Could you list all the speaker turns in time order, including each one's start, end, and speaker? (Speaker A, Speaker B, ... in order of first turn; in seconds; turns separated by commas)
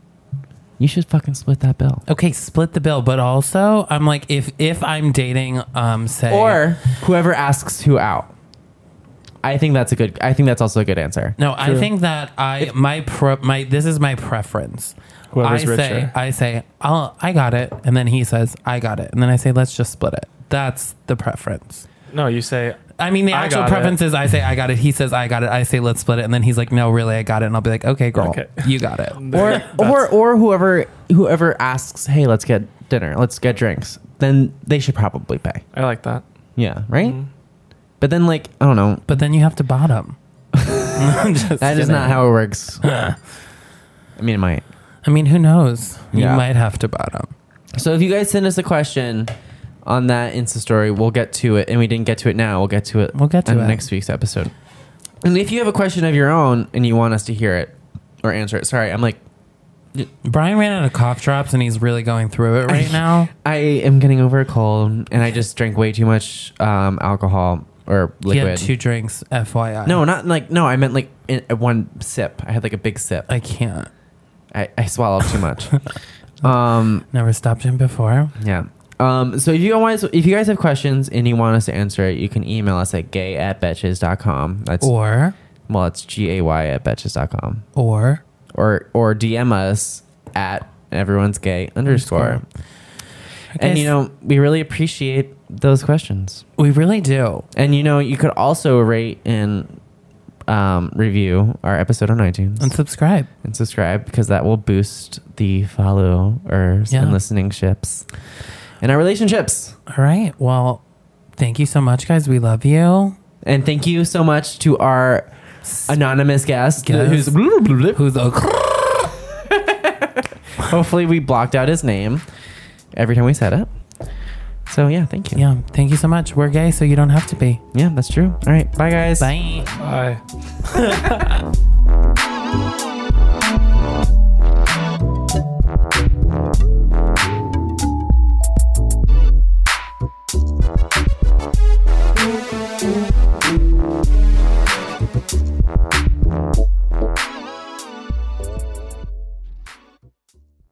Speaker A: 0.8-2.0, Speaker B: 2.1-6.6, Speaker A: 6.3-8.3, Speaker A: 9.4-11.4, Speaker B: 11.4-21.8, Speaker C: 11.6-11.9, Speaker C: 15.3-16.1, Speaker C: 22.1-24.0, Speaker B: 23.0-29.5, Speaker C: 28.1-30.1, Speaker A: 29.3-35.6, Speaker C: 35.7-36.2, Speaker A: 36.6-37.2, Speaker C: 37.0-37.3, Speaker A: 38.0-39.0, Speaker B: 39.1-40.2, Speaker A: 40.5-42.8, Speaker B: 40.9-42.2, Speaker B: 42.8-43.2, Speaker A: 44.1-44.6, Speaker B: 45.0-47.3, Speaker A: 46.1-46.4, Speaker A: 47.7-49.3, Speaker A: 49.8-54.5, Speaker B: 53.1-53.9, Speaker A: 55.2-59.2, Speaker B: 60.2-63.3, Speaker A: 62.7-68.7, Speaker B: 68.3-70.0, Speaker A: 69.8-73.3, Speaker B: 73.3-73.9, Speaker A: 74.5-75.7, Speaker A: 76.4-77.0, Speaker B: 77.1-78.3, Speaker A: 78.4-84.9, Speaker B: 84.8-85.3, Speaker A: 85.7-87.6, Speaker B: 87.8-88.2, Speaker A: 88.5-92.4, Speaker B: 91.9-92.4, Speaker B: 93.5-93.9, Speaker A: 93.5-96.4, Speaker B: 96.6-97.5, Speaker A: 97.5-99.8, Speaker A: 100.5-102.7, Speaker B: 102.6-103.3, Speaker A: 103.4-108.1, Speaker B: 106.9-107.2, Speaker A: 108.8-109.8, Speaker B: 109.9-110.8, Speaker B: 111.4-113.2, Speaker A: 113.4-115.3, Speaker B: 115.6-115.9, Speaker A: 115.8-118.0, Speaker B: 116.8-117.3, Speaker B: 117.9-119.0, Speaker A: 118.8-122.2, Speaker A: 122.9-123.7, Speaker A: 124.7-125.4, Speaker B: 125.3-127.6, Speaker A: 127.7-129.3, Speaker B: 129.2-129.7, Speaker C: 129.8-130.2, Speaker B: 130.7-131.4